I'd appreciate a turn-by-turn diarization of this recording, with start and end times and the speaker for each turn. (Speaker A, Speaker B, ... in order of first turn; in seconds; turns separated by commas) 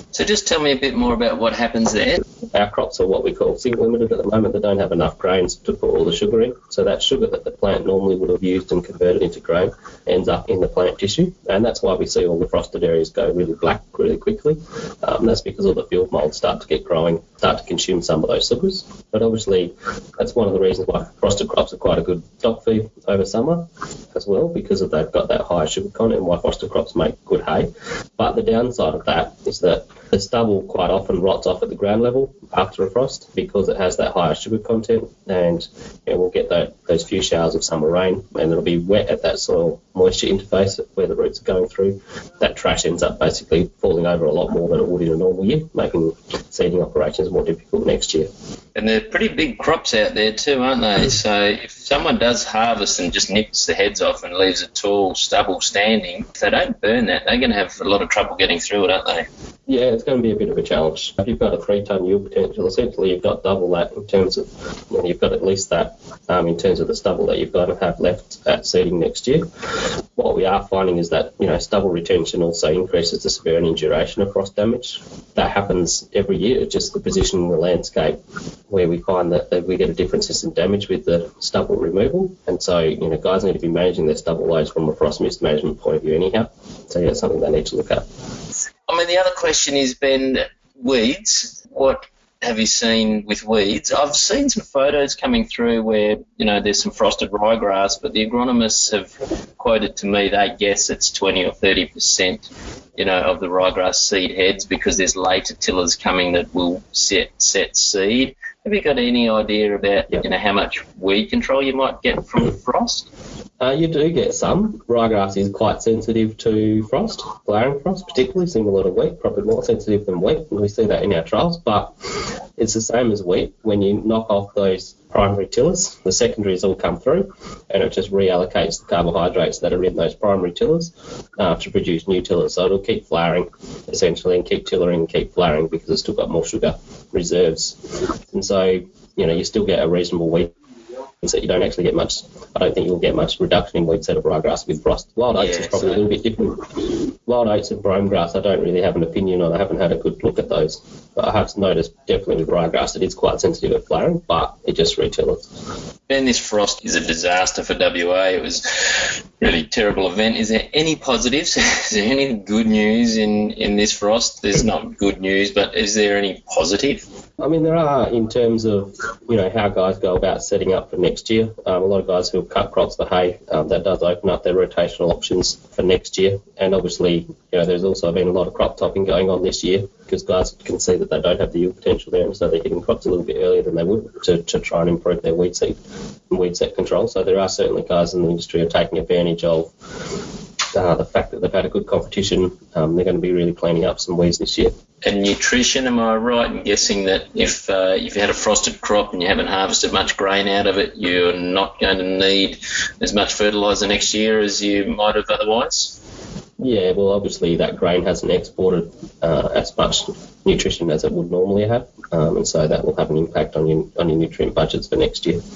Speaker A: 0.1-2.2, Speaker B: 2.5-48.3, Speaker A: 48.7-59.3, Speaker B: 59.7-69.5, Speaker B: 70.2-88.1, Speaker A: 88.9-113.1, Speaker B: 113.6-140.5, Speaker B: 141.2-155.5, Speaker A: 145.4-146.0, Speaker A: 156.1-167.0, Speaker B: 167.4-190.1, Speaker B: 190.7-194.8, Speaker A: 195.0-206.0, Speaker B: 206.6-215.4